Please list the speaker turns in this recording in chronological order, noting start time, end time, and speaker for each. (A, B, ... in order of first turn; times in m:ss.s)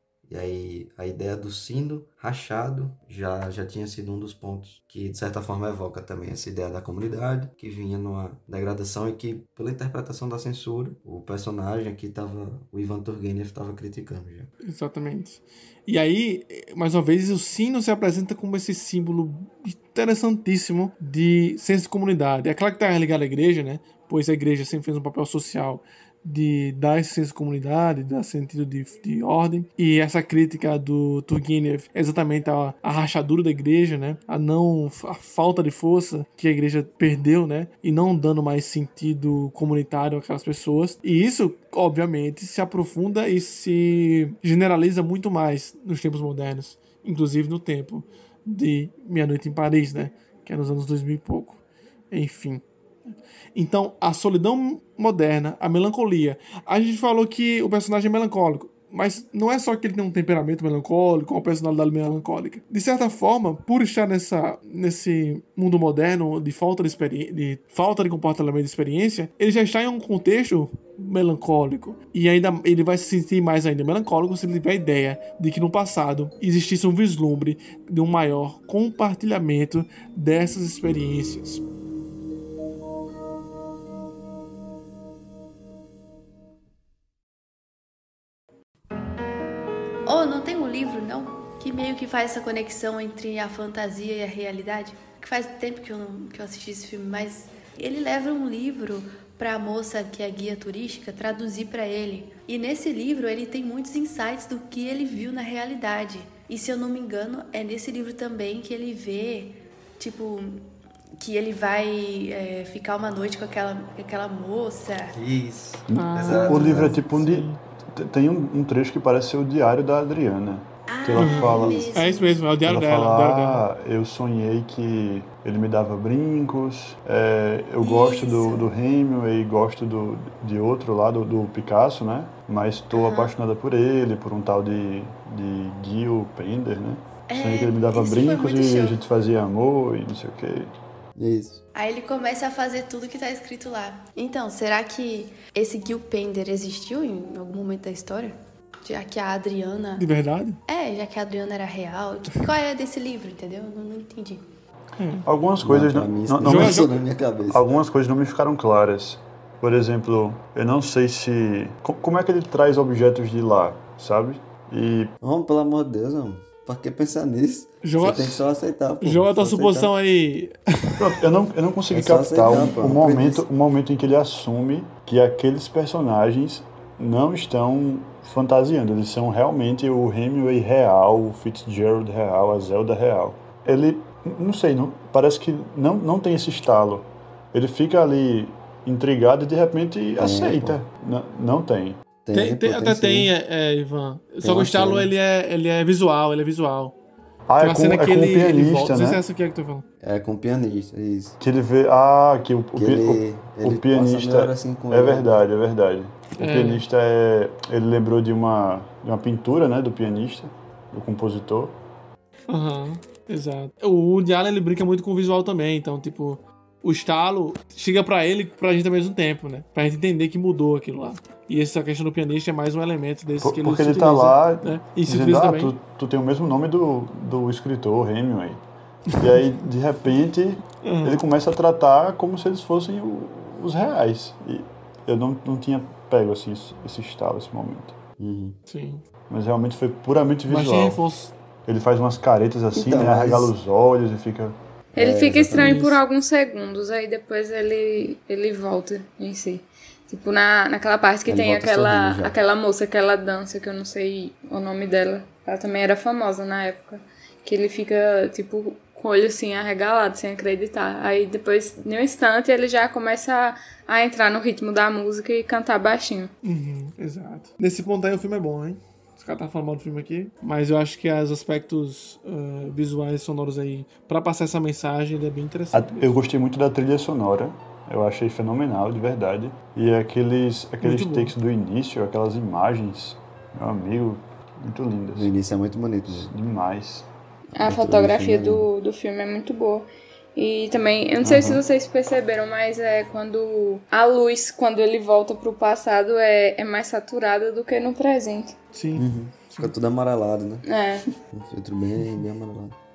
0:00.3-0:14.5 A
0:14.6-0:51.6 B
0:52.1-0:52.6 B
0:53.6-1:21.6 B
1:30.1-1:55.2 C
1:55.1-1:57.0 A
1:55.9-2:02.1 D
1:56.0-1:57.6 B
2:00.9-2:02.4 C
2:01.2-2:03.6 B
2:02.6-2:20.7 D
2:07.8-2:08.7 C
2:12.9-2:13.4 C
2:17.3-2:19.0 C
2:21.2-2:21.6 A
2:21.8-2:30.1 C
2:30.0-2:30.6 B
2:30.7-2:34.4 C
2:35.0-2:35.3 B
2:35.2-2:37.0 D
2:35.6-2:37.6 A
2:36.4-2:36.9 B
2:37.5-2:45.1 D
2:45.2-2:49.9 A
2:47.8-2:48.4 B
2:49.0-2:51.0 B
2:51.0-3:12.0 D
2:51.9-2:53.4 A
3:10.2-3:10.8 A
3:12.2-3:13.3 A
3:12.3-3:17.0 B
3:14.4-3:15.1 A
3:17.5-3:19.2 D
3:17.6-3:19.8 B
3:20.0-3:21.4 A
3:21.4-3:31.8 D
3:22.7-3:25.3 A
3:26.4-3:26.8 B
3:32.5-3:45.8 B
3:43.4-3:48.6 D
3:49.2-3:58.0 D
3:50.8-3:51.2 B
3:58.2-3:58.6 A
3:58.7-3:59.0 B
3:59.3-4:01.0 D
4:00.5-4:01.3 B
4:01.7-4:04.6 D
4:02.7-4:03.5 A
4:05.0-4:05.9 A
4:05.0-4:26.3 E
4:05.5-4:06.0 B
4:11.3-4:12.4 A
4:26.4-4:36.2 B
4:35.7-4:45.3 D
4:40.8-4:41.3 B
4:45.2-4:46.3 A
4:46.1-4:47.1 D
4:47.6-4:58.6 E
4:47.7-4:48.4 A
4:47.7-4:48.6 D
4:51.2-4:51.6 D
4:58.7-4:59.8 B
4:58.9-5:00.6 A
5:00.6-5:01.1 E
5:01.3-5:02.8 A